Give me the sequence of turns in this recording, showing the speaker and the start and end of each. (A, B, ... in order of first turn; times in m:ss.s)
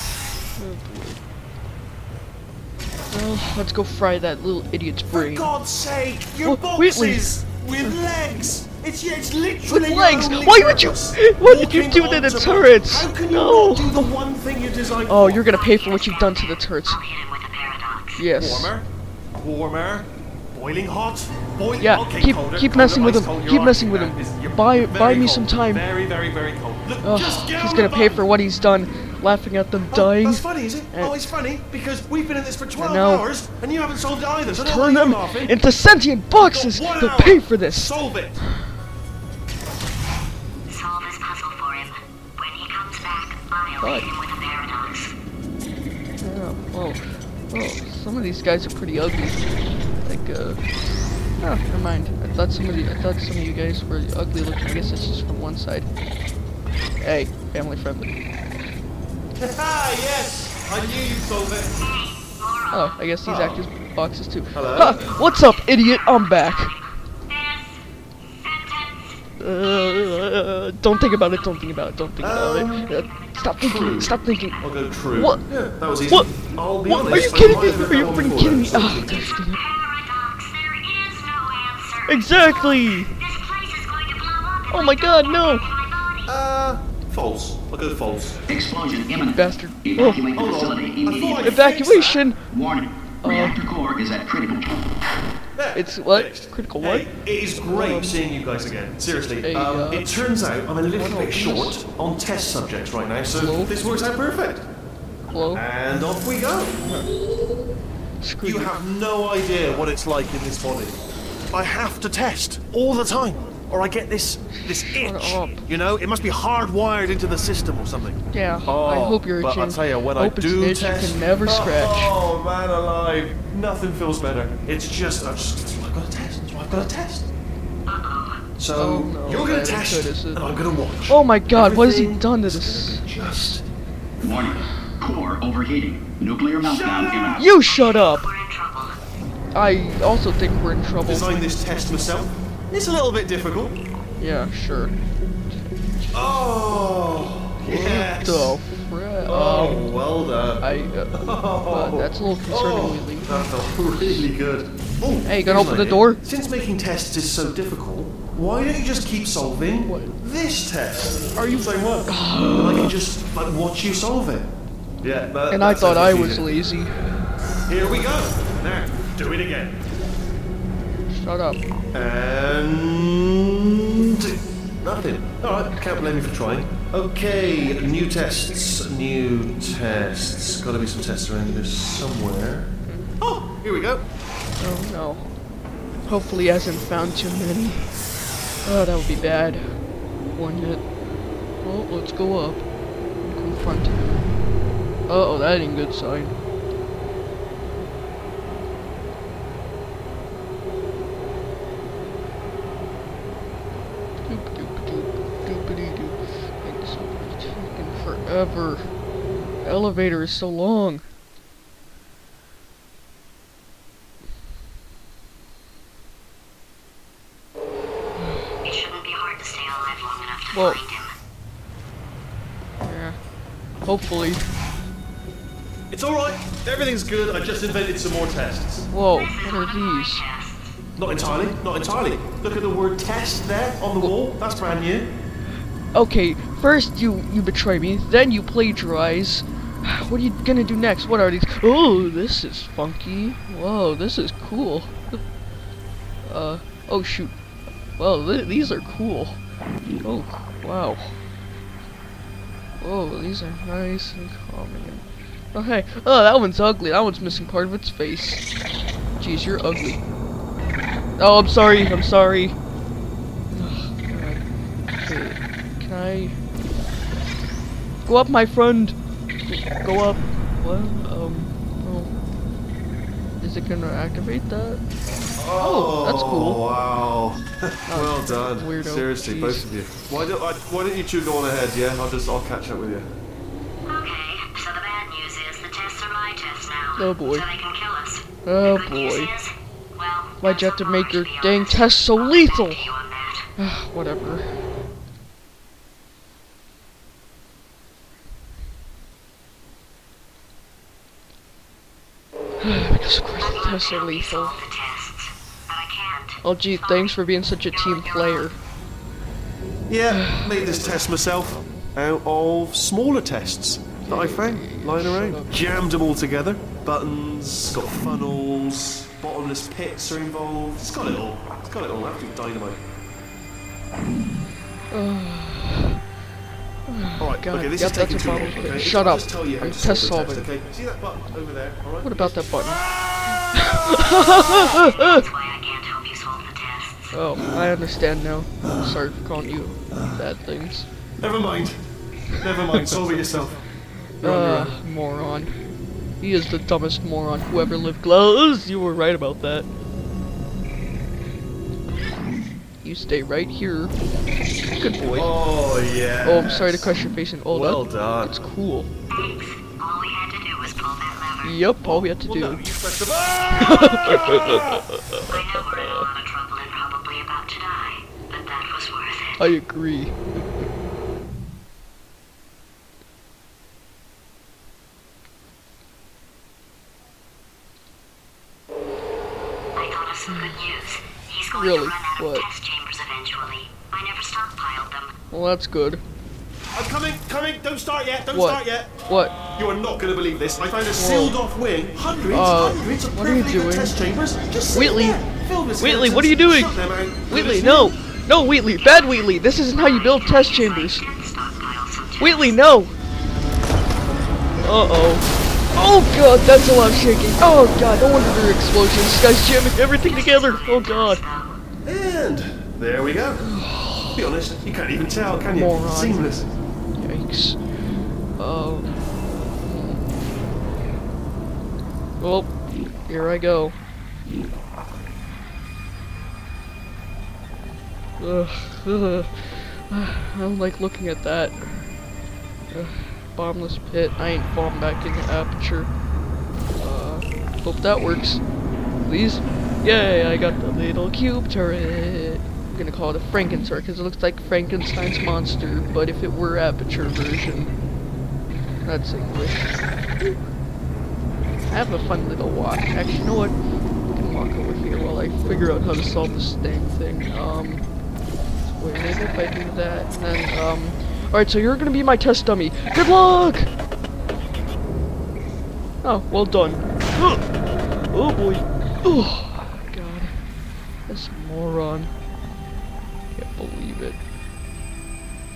0:00.6-0:01.2 A
0:03.1-0:05.5 A
0:05.1-0:15.4 B
0:06.4-0:08.0 A
0:09.7-0:14.2 A
0:15.1-0:17.0 A
0:15.4-0:18.2 C
0:18.2-0:18.7 A
0:18.4-0:28.2 B
0:21.8-0:25.8 A
0:27.0-0:31.4 A
0:29.9-0:35.6 B
0:32.8-0:33.2 A
0:34.5-0:38.0 A
0:36.4-0:38.4 B
0:40.7-0:45.1 C
0:43.8-0:44.1 A
0:46.2-0:50.6 A
0:51.4-0:55.9 A
0:57.0-0:58.2 A
0:59.3-1:01.8 B
1:01.8-1:03.0 C
1:02.7-1:06.7 A
1:03.2-1:03.6 B
1:04.5-1:05.2 B
1:05.3-1:07.8 C
1:08.3-1:09.2 C
1:09.4-1:15.5 A
1:12.2-1:12.9 B
1:13.1-1:14.1 C
1:13.6-1:19.4 B
1:16.1-1:19.6 A
1:19.5-1:26.3 C
1:22.1-1:23.1 A
1:24.7-1:25.7 A
1:26.2-1:28.4 B
1:28.5-1:31.5 D
1:29.3-1:30.2 A
1:30.3-1:32.2 B
1:31.4-1:32.4 A
1:32.5-1:34.9 D
1:33.2-1:33.6 A
1:35.6-1:44.7 B
1:35.7-1:37.1 A
1:37.6-1:38.2 A
1:39.4-1:40.2 A
1:40.9-1:41.8 A
1:43.2-1:43.7 A
1:45.3-1:45.6 A
1:45.5-1:46.8 B
1:46.8-1:47.2 A
1:48.2-1:48.8 A
1:48.4-1:51.0 B
1:51.5-2:07.3 B
1:54.6-1:55.7 A
1:58.3-2:02.2 A
2:07.9-2:08.4 C
2:08.6-2:13.7 B
2:08.7-2:13.6 A
2:14.2-2:17.4 D
2:16.6-2:17.4 B
2:17.4-2:18.3 A
2:17.4-2:19.0 C
2:19.5-2:21.3 A
2:21.0-2:23.8 B
2:24.2-2:24.9 A
2:26.1-2:28.6 B
2:27.6-2:29.9 A
2:29.3-2:46.5 B
2:30.6-2:34.3 A
2:35.2-2:36.2 A
2:39.8-2:40.2 A
2:41.4-2:43.0 A
2:45.5-2:47.1 A
2:47.7-2:49.8 B
2:51.1-2:51.6 A
2:51.9-3:04.0 B
3:02.8-3:03.1 A
3:04.6-3:05.4 A
3:06.0-3:08.0 A
3:08.6-3:10.9 A
3:11.6-3:12.7 A
3:13.2-3:14.3 A
3:15.1-3:16.3 A
3:24.2-3:29.0 A
3:29.6-3:31.0 A
3:38.2-3:38.4 A
3:38.6-3:41.1 C
3:40.5-3:40.8 A
3:42.8-3:43.2 A
3:43.8-3:44.5 A
3:45.9-3:48.9 B
3:48.9-3:50.2 A
3:49.1-3:50.8 C
3:51.0-3:55.1 B
3:55.9-4:05.2 A
4:06.2-4:07.3 A
4:08.0-4:09.4 A
4:10.0-4:11.2 A
4:12.8-4:18.5 A
4:19.2-4:20.0 A
4:21.2-4:22.6 A
4:23.5-4:26.4 A
4:28.0-4:32.1 A
4:33.4-4:34.8 A
4:35.4-4:43.1 B
4:35.6-4:36.6 A
4:37.9-4:39.7 A
4:43.8-4:53.5 C
4:47.0-4:47.4 A
4:48.4-4:49.3 A
4:50.4-4:52.9 A
4:53.6-4:54.6 A
5:02.6-5:04.6 A
5:03.4-5:08.5 C
5:06.4-5:08.6 A
5:09.9-5:22.8 B
5:10.1-5:11.9 A
5:14.0-5:15.8 A
5:24.9-5:26.0 A
5:26.9-5:30.5 A
5:27.2-5:32.6 B
5:32.0-5:35.2 A
5:34.3-5:37.1 C
5:37.1-5:40.9 A
5:39.9-5:40.2 B
5:41.2-5:41.8 B
5:42.3-5:43.7 B
5:42.4-5:42.9 A
5:44.2-5:45.6 A
5:44.2-5:44.8 B
5:46.2-5:49.7 A
5:52.8-5:53.9 A
5:54.7-5:55.3 A
5:55.1-5:57.0 B
5:56.2-5:58.9 A
5:57.5-5:58.3 B
5:59.1-6:01.6 C
6:01.4-6:02.6 A
6:01.8-6:04.8 B
6:03.5-6:06.0 A
6:05.1-6:09.5 C
6:09.4-6:10.2 A
6:19.7-6:25.1 C
6:20.3-6:20.6 A
6:21.5-6:22.4 A
6:25.3-6:26.0 A
6:26.7-6:28.9 B
6:28.3-6:29.4 A
6:29.6-6:38.0 B
6:30.9-6:31.4 A
6:32.3-6:34.0 A
6:34.7-6:35.2 A
6:35.8-6:41.0 A
6:38.8-6:42.6 C
6:42.2-6:42.9 A
6:44.6-6:51.2 A
6:49.9-6:51.6 C
6:51.8-6:53.5 B
6:53.4-6:54.3 A
6:54.1-6:56.5 B
6:55.5-6:59.0 A
6:59.6-7:00.0 A
7:02.2-7:03.8 A
7:08.2-7:12.0 A
7:12.7-7:15.9 A
7:16.7-7:18.4 A
7:19.0-7:27.8 A
7:28.8-7:30.4 A
7:31.7-7:33.6 A
7:34.1-7:37.9 A
7:38.6-7:43.7 A
7:46.0-7:47.5 A
7:48.0-7:50.5 A
7:51.0-7:52.1 A
7:53.3-7:54.2 A